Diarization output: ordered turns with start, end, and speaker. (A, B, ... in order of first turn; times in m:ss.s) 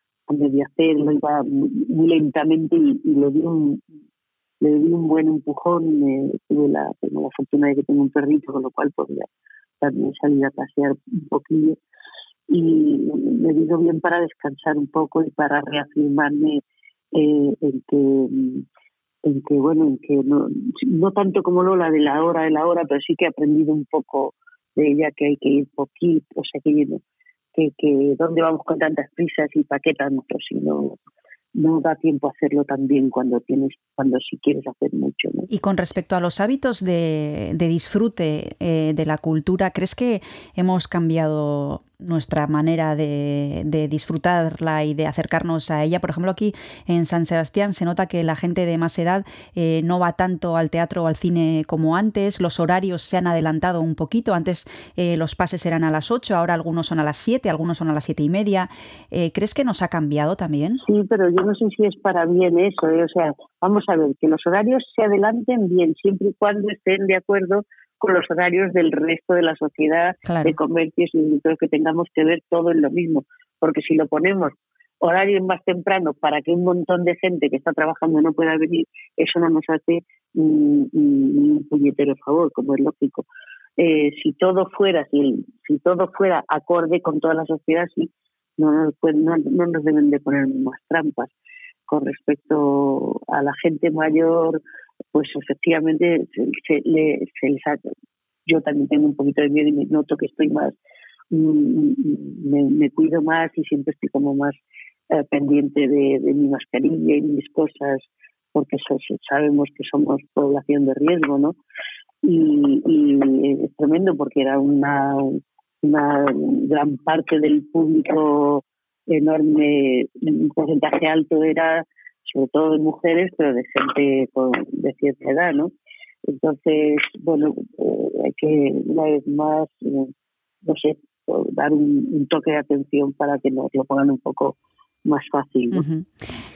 0:00.3-0:03.8 A
0:04.6-0:09.3 A
0:09.8-0:11.8 A
0:12.5-0:16.6 A
0:17.1-0:18.6 A
0:19.2-0:27.0 A
0:27.6-0:31.0 A
0:31.6-0:35.5 A
0:35.5-1:00.8 B
1:00.8-1:23.3 A
1:10.3-1:10.6 B
1:23.8-1:31.3 A
1:31.9-1:34.6 A
1:35.1-1:37.8 A
1:38.5-1:40.8 A
1:41.3-1:44.6 A
1:45.1-1:51.6 A
1:52.2-2:05.7 A
2:06.3-2:10.1 A
2:10.6-2:15.8 A
2:15.7-2:16.3 B